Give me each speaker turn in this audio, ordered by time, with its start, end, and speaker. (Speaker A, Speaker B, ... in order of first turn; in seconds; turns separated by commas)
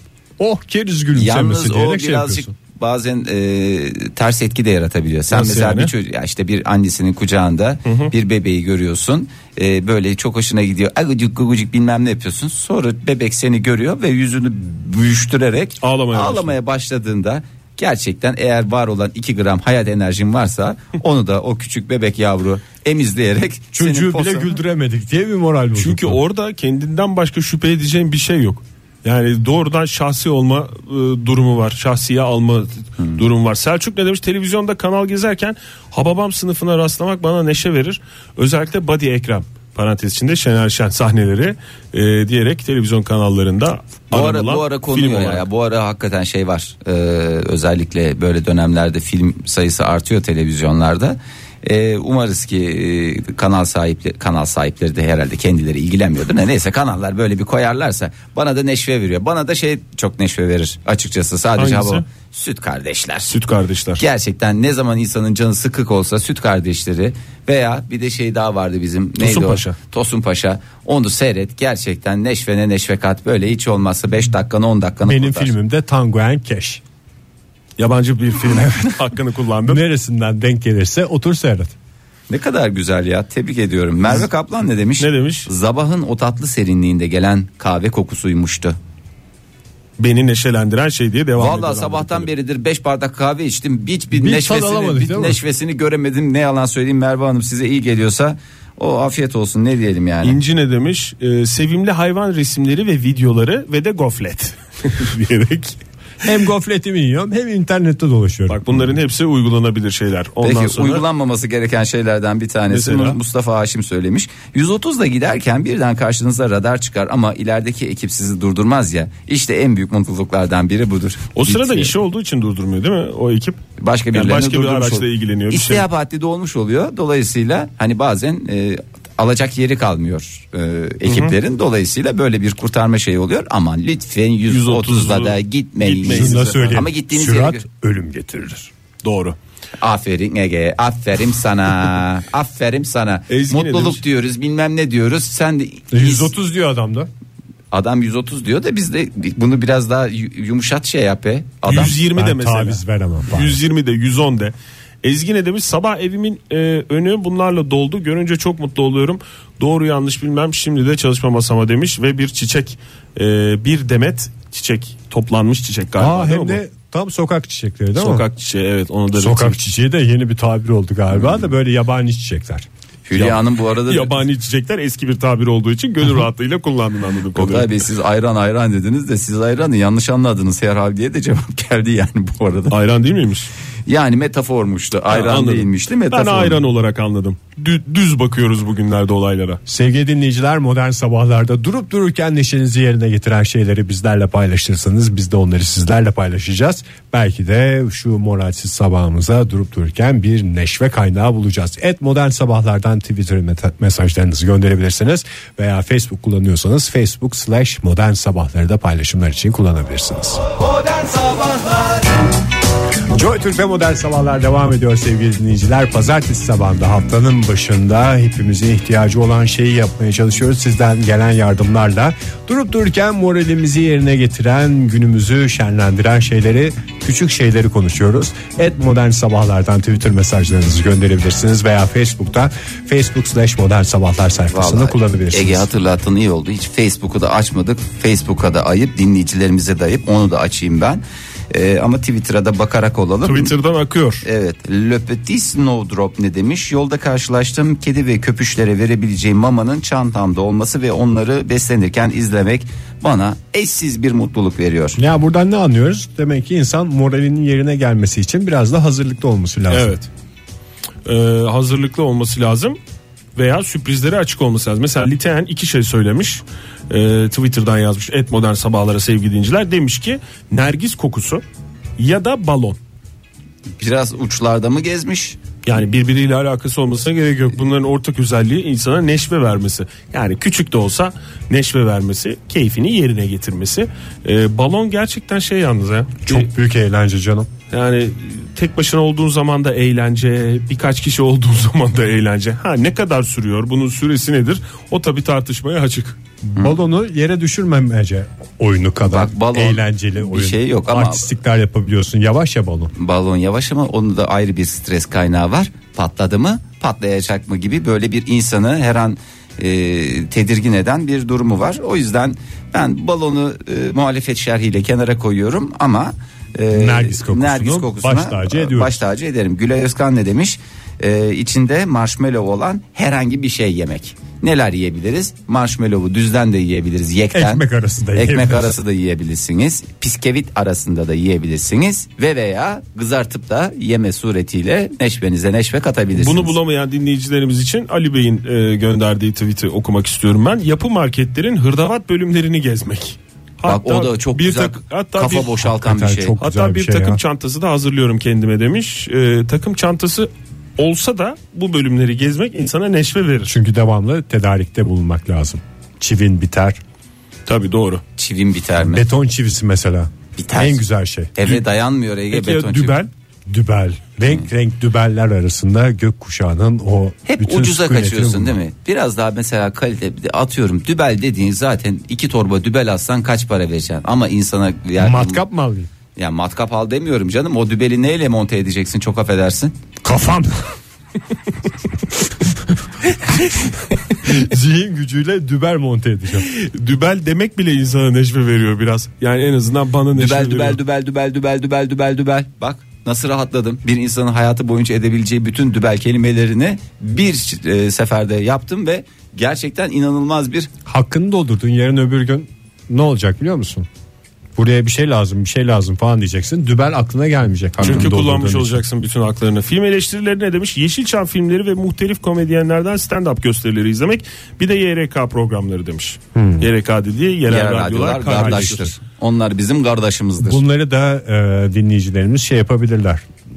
Speaker A: 0.4-2.5, Speaker B: 1.2-24.6, Speaker C: 5.3-5.9, Speaker C: 7.9-8.1, Speaker C: 15.8-16.5, Speaker A: 23.7-26.2, Speaker C: 25.8-45.5, Speaker B: 44.1-63.3, Speaker C: 61.6-62.0, Speaker C: 63.3-64.0, Speaker B: 64.0-75.5, Speaker C: 69.2-69.8, Speaker A: 75.1-76.8, Speaker C: 77.8-79.8, Speaker A: 79.7-81.7, Speaker B: 82.3-88.8, Speaker C: 85.0-85.5, Speaker C: 90.0-92.3, Speaker B: 91.4-100.4, Speaker A: 94.1-95.4, Speaker C: 100.2-105.8, Speaker A: 106.2-108.7, Speaker C: 108.5-111.0, Speaker B: 110.4-121.9, Speaker C: 112.7-113.2, Speaker C: 121.4-123.6, Speaker B: 123.8-137.6, Speaker C: 124.1-125.8, Speaker C: 131.1-131.3, Speaker C: 134.5-136.8, Speaker A: 136.1-138.7, Speaker C: 139.0-139.4, Speaker B: 139.8-146.3, Speaker C: 143.3-144.0, Speaker A: 145.9-147.1, Speaker B: 147.7-152.0, Speaker C: 151.6-166.6, Speaker A: 152.2-153.6, Speaker A: 166.0-168.2, Speaker C: 167.9-169.6, Speaker A: 169.2-172.7, Speaker B: 173.1-174.2, Speaker C: 173.1-177.8, Speaker B: 177.3-182.8, Speaker C: 182.7-183.5, Speaker B: 183.9-186.7, Speaker C: 185.1-189.6, Speaker A: 189.7-210.4, Speaker A: 213.1-235.7, Speaker B: 234.5-243.5, Speaker C: 243.2-244.2, Speaker B: 244.2-255.0, Speaker A: 255.0-260.0, Speaker C: 259.7-260.1, Speaker C: 261.1-262.8, Speaker C: 263.4-271.4, Speaker C: 272.0-272.8, Speaker B: 273.8-275.4, Speaker C: 275.7-286.5, Speaker A: 286.3-287.5, Speaker C: 287.7-296.2, Speaker A: 296.5-302.9, Speaker B: 299.1-301.3, Speaker B: 303.0-327.6, Speaker A: 316.7-319.0, Speaker A: 327.3-328.8, Speaker B: 328.1-336.6, Speaker C: 336.1-345.6, Speaker B: 343.7-346.4, Speaker A: 345.6-347.2, Speaker C: 346.4-353.5, Speaker A: 353.5-356.8, Speaker C: 357.5-358.0, Speaker B: 358.2-359.1, Speaker A: 358.8-361.5, Speaker B: 360.4-360.8, Speaker B: 361.4-363.0, Speaker A: 362.3-368.6, Speaker B: 367.3-375.4, Speaker A: 375.0-375.9, Speaker B: 376.2-379.8, Speaker A: 380.0-380.8, Speaker A: 384.2-386.5, Speaker C: 386.4-390.8, Speaker B: 390.1-400.7, Speaker A: 400.9-403.9, Speaker A: 404.6-408.8, Speaker C: 407.8-418.9, Speaker A: 416.4-416.7, Speaker B: 417.5-420.6, Speaker A: 418.4-418.7, Speaker A: 420.4-423.2